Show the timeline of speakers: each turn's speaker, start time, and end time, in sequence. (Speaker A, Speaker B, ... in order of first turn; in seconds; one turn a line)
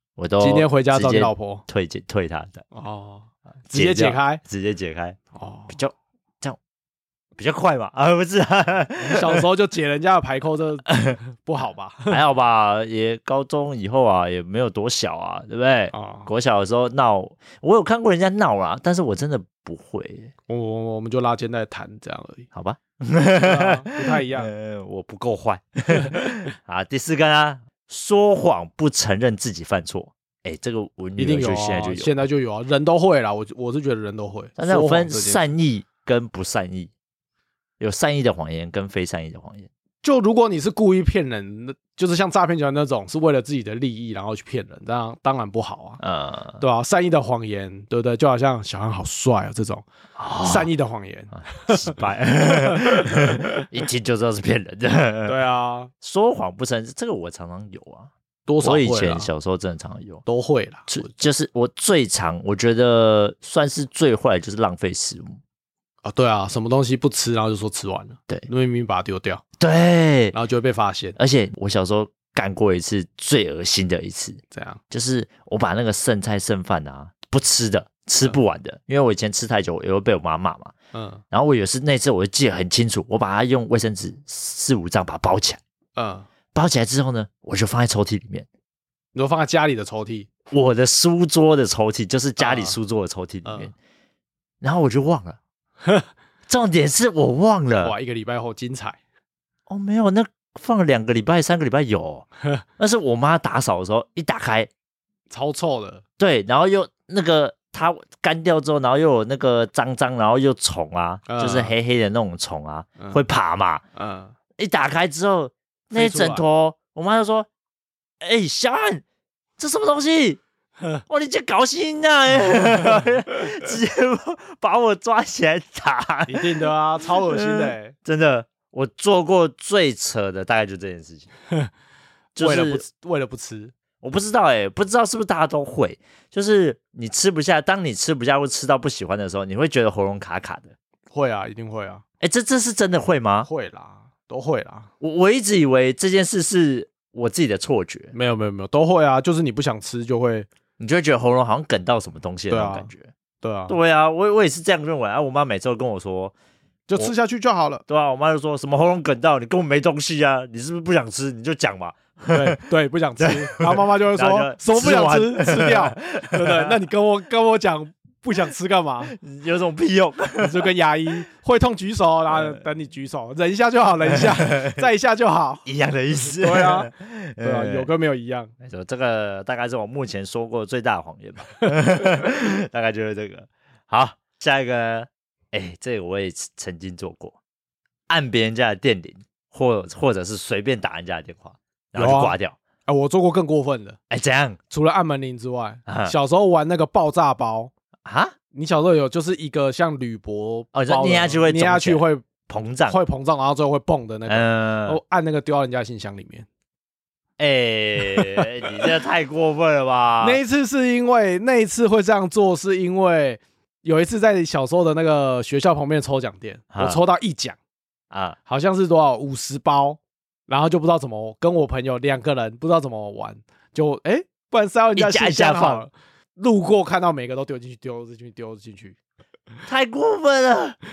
Speaker A: 0.2-2.6
Speaker B: 0.4-1.6
Speaker B: 2.7-4.4
Speaker A: 3.7-5.2
Speaker B: 5.3-5.7
Speaker A: 5.7-6.6
Speaker A: 7.4-9.4
Speaker B: 9.0-12.2
Speaker A: 10.9-11.2
Speaker A: 12.1-20.3
Speaker B: 15.9-16.3
Speaker B: 20.5-22.4
Speaker A: 22.5-32.2
Speaker B: 23.4-24.5
Speaker B: 25.9-26.4
Speaker B: 31.2-35.4
Speaker A: 34.6-36.9
Speaker A: 37.8-39.7
Speaker B: 40.0-46.0
Speaker A: 46.0-46.6
Speaker B: 46.6-49.8
Speaker A: 50.2-50.7
Speaker B: 50.4-52.0
Speaker A: 51.3-55.4
Speaker B: 52.5-53.6
Speaker B: 55.2-55.9
Speaker A: 56.0-58.1
Speaker B: 58.5-59.3
Speaker A: 58.6-60.2
Speaker B: 60.2-61.1
Speaker A: 60.9-65.4
Speaker B: 66.0-69.4
Speaker A: 69.6-70.3
Speaker B: 70.3-71.2
Speaker A: 71.2-80.7
Speaker B: 74.5-74.8
Speaker B: 80.9-81.2
Speaker A: 81.3-85.6
Speaker B: 86.0-86.3
Speaker A: 86.5-88.5
Speaker B: 89.1-90.3
Speaker A: 90.5-93.7
Speaker B: 92.4-92.8
Speaker B: 93.4-93.7
Speaker A: 94.6-95.4
Speaker A: 96.5-97.9
Speaker B: 97.8-99.0
Speaker A: 99.7-102.3
Speaker A: 102.8-104.7
Speaker B: 105.3-106.0
Speaker A: 106.2-113.8
Speaker B: 111.3-111.7
Speaker B: 113.9-114.3
Speaker A: 114.6-117.5
Speaker B: 115.9-116.4
Speaker A: 118.2-119.0
Speaker A: 119.6-120.4
Speaker A: 121.1-126.6
Speaker B: 126.3-127.9
Speaker A: 127.3-131.3
Speaker A: 132.3-132.8
Speaker B: 132.4-133.7
Speaker A: 134.0-140.7
Speaker B: 141.1-142.0
Speaker A: 142.2-143.5
Speaker B: 143.4-144.9
Speaker A: 145.0-148.1
Speaker B: 148.1-150.5
Speaker A: 150.8-153.1
Speaker B: 152.5-152.9
Speaker B: 153.4-153.7
Speaker A: 153.7-156.3
Speaker B: 156.9-157.8
Speaker A: 157.9-162.6
Speaker B: 162.3-169.1
Speaker A: 163.2-166.7
Speaker A: 169.1-170.7
Speaker B: 170.4-176.9
Speaker A: 174.1-174.8
Speaker A: 175.7-177.9
Speaker B: 177.4-178.5
Speaker A: 178.6-187.3
Speaker A: 188.1-192.6
Speaker B: 191.9-194.0
Speaker A: 194.1-194.6
Speaker B: 194.7-197.7
Speaker A: 195.8-196.1
Speaker A: 198.1-198.3
Speaker B: 198.5-202.2
Speaker A: 200.7-203.0
Speaker B: 202.9-206.4
Speaker A: 204.3-205.0
Speaker A: 207.4-210.4
Speaker B: 208.1-208.4
Speaker B: 210.2-217.6
Speaker A: 216.7-217.0
Speaker A: 218.1-218.4
Speaker B: 218.5-228.9
Speaker A: 224.9-225.8
Speaker A: 229.7-230.8